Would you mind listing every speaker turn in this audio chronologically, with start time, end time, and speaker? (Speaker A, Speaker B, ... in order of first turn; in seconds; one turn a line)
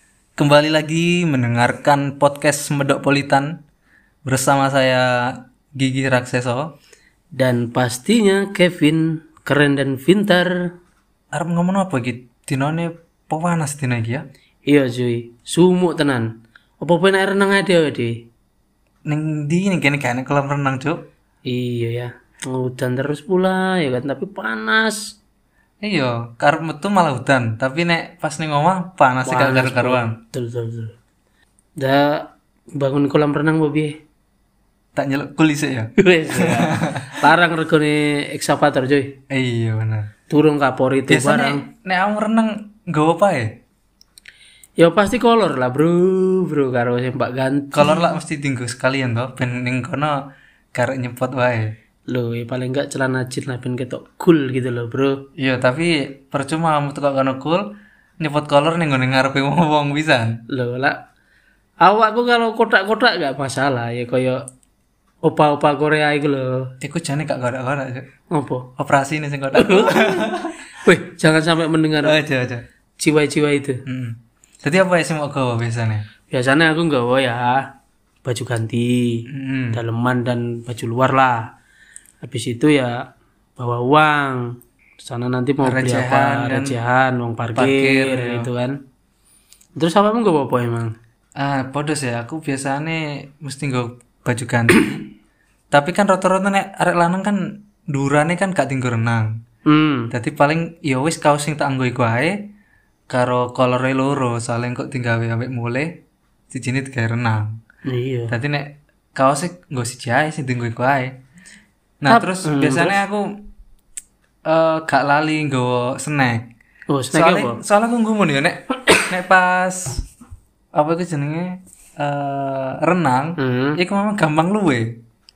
Speaker A: 0.4-3.5
Speaker A: 4.3-5.1
Speaker A: 5.8-6.7
Speaker B: 7.4-10.7
Speaker A: 11.3-14.2
Speaker B: 14.7-16.3
Speaker B: 16.8-18.1
Speaker A: 19.1-21.0
Speaker B: 21.5-25.0
Speaker A: 25.8-30.2
Speaker B: 29.3-30.9
Speaker B: 31.8-32.2
Speaker B: 32.8-33.9
Speaker A: 35.0-37.2
Speaker B: 36.0-39.1
Speaker A: 39.3-40.1
Speaker B: 40.3-41.6
Speaker A: 41.1-43.6
Speaker B: 44.8-48.1
Speaker A: 47.7-50.2
Speaker A: 50.8-51.7
Speaker B: 52.1-55.2
Speaker A: 55.4-57.7
Speaker A: 58.2-60.4
Speaker B: 60.5-61.0
Speaker B: 61.8-64.4
Speaker B: 65.3-66.7
Speaker A: 66.8-68.0
Speaker B: 68.3-68.7
Speaker A: 68.8-70.5
Speaker B: 69.5-72.2
Speaker A: 72.0-72.6
Speaker B: 73.0-73.8
Speaker A: 73.9-76.0
Speaker B: 76.3-77.7
Speaker B: 78.2-81.5
Speaker A: 79.3-79.8
Speaker B: 82.2-83.0
Speaker B: 83.6-88.8
Speaker A: 85.6-86.8
Speaker A: 87.5-88.5
Speaker B: 89.8-90.9
Speaker A: 91.4-95.1
Speaker A: 95.7-97.4
Speaker A: 97.9-99.3
Speaker B: 99.7-100.1
Speaker A: 100.1-102.4
Speaker A: 103.1-105.9
Speaker A: 106.5-107.5
Speaker B: 107.9-108.3
Speaker A: 108.3-111.1
Speaker A: 112.0-113.2
Speaker B: 112.1-113.0
Speaker A: 114.5-116.4
Speaker B: 116.9-117.6
Speaker A: 117.2-120.0
Speaker A: 120.7-124.9
Speaker B: 123.4-123.8